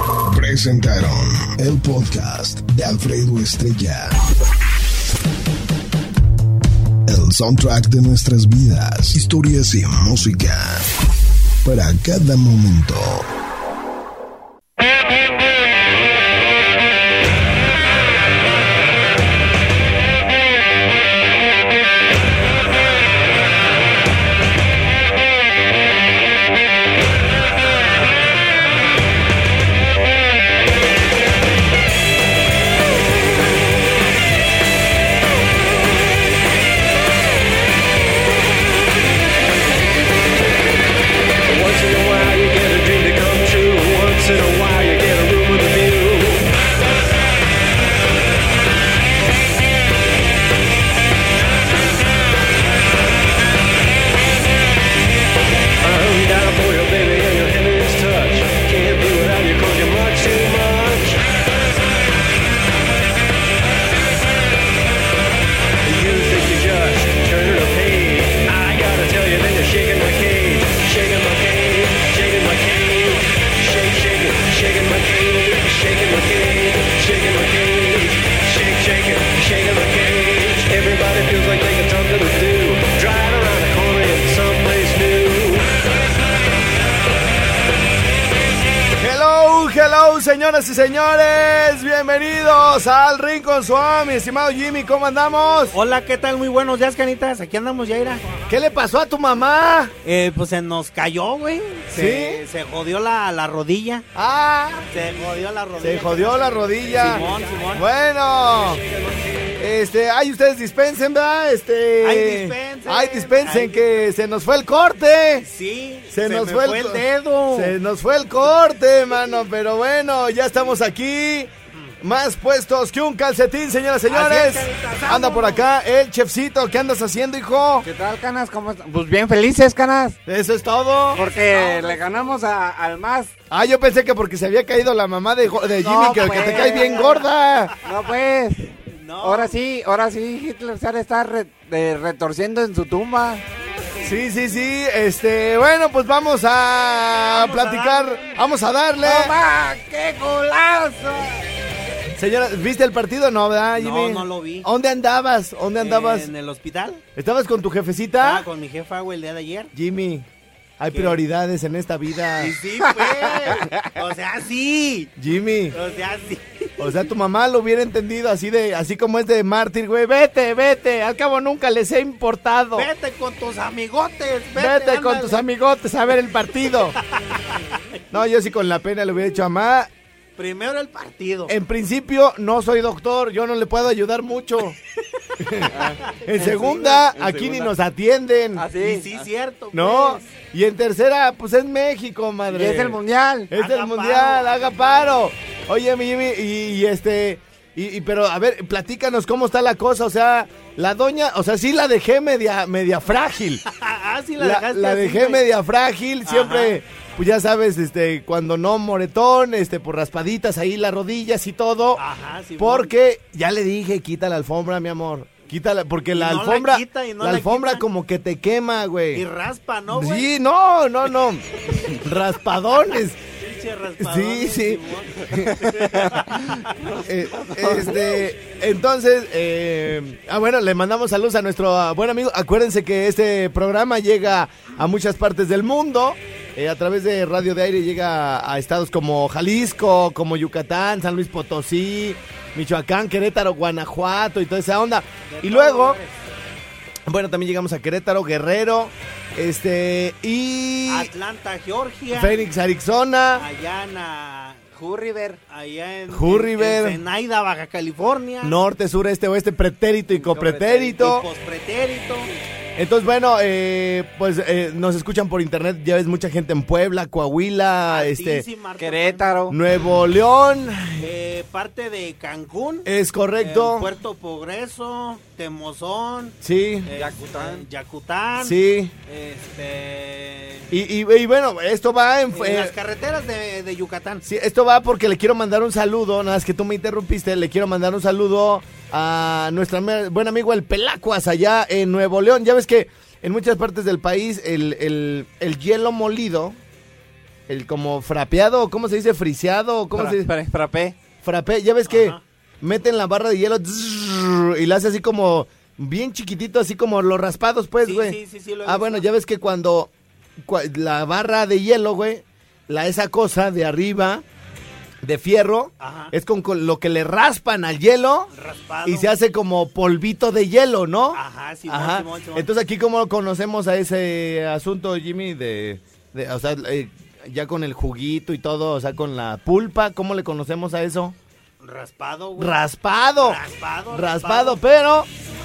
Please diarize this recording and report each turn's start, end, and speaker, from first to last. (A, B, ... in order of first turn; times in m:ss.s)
0:00.3-0:04.2 A
0:07.0-0:10.9 A
0:11.6-0:13.3 A
0:41.5-0:46.5 B
0:55.8-1:01.2 B
1:05.8-1:25.7 B
1:29.0-1:35.7 C
1:35.7-1:38.3 D
1:38.5-1:39.9 C
1:40.0-1:44.0 D
1:41.9-1:42.4 C
1:44.1-1:44.9 C
1:44.9-1:47.9 D
1:45.8-1:48.8 C
1:49.6-1:55.4 C
1:52.0-1:54.0 D
1:55.4-1:57.7 D
1:56.1-2:01.5 C
2:02.0-2:07.8 C
2:04.1-2:05.6 D
2:07.8-2:10.2 E
2:10.2-2:11.2 C
2:11.1-2:12.4 D
2:11.1-2:13.3 E
2:13.5-2:17.7 C
2:15.8-2:17.1 E
2:16.0-2:17.2 D
2:17.8-2:18.7 E
2:18.9-2:19.6 D
2:19.2-2:23.4 E
2:24.0-2:29.3 C
2:27.2-2:28.4 D
2:29.0-2:31.4 E
2:32.2-2:36.3 C
2:33.8-2:34.7 D
2:35.8-2:37.0 D
2:37.2-2:38.4 C
2:38.2-2:39.7 D
2:39.7-2:40.3 C
2:40.8-2:42.6 C
2:40.9-2:41.2 D
2:42.4-2:45.1 D
2:45.2-2:45.8 C
2:45.7-2:46.9 D
2:46.8-2:52.9 C
2:52.7-2:55.4 D
2:54.5-2:57.0 C
2:57.1-2:57.8 D
2:58.1-2:59.9 C
3:00.4-3:01.6 D
3:01.5-3:04.8 C
3:05.4-3:05.7 C
3:05.7-3:07.7 E
3:06.2-3:08.6 C
3:08.6-3:09.3 E
3:08.8-3:10.3 D
3:09.7-3:13.0 C
3:12.5-3:13.5 E
3:13.5-3:23.6 C
3:13.5-3:15.1 D
3:23.6-3:25.4 D
3:24.4-3:32.0 C
3:26.2-3:26.8 D
3:32.0-3:32.9 D
3:32.6-3:39.2 C
3:36.1-3:37.8 D
3:39.1-3:40.3 D
3:39.9-3:43.2 C
3:43.4-3:47.0 D
3:44.0-3:46.4 C
3:47.0-4:06.0 C
3:47.5-3:47.9 E
4:05.3-4:06.2 D
4:07.1-4:11.1 C
4:10.8-4:12.5 D
4:12.1-4:13.4 C
4:13.4-4:14.7 D
4:14.8-4:15.4 E
4:15.5-4:18.6 D
4:16.1-4:17.0 C
4:18.4-4:21.2 C
4:20.2-4:21.0 E
4:20.9-4:22.3 D
4:22.8-4:28.4 C
4:27.9-4:29.4 D
4:28.8-4:29.6 E
4:29.5-4:31.0 C
4:31.0-4:40.7 D
4:32.8-4:33.9 C
4:36.4-4:36.9 C
4:36.9-4:37.6 E
4:38.4-4:38.9 C
4:40.7-4:42.7 C
4:42.3-4:44.2 D
4:44.2-4:56.6 C
4:57.5-5:00.3 C
4:59.9-5:01.0 E
5:01.2-5:14.2 C
5:01.9-5:02.2 D
5:07.8-5:09.1 D
5:15.0-5:18.3 C
5:15.8-5:16.1 D
5:18.3-5:19.1 D
5:18.8-5:31.2 C
5:21.1-5:22.5 D
5:31.6-5:32.6 D
5:32.4-5:35.1 C
5:33.2-5:34.6 D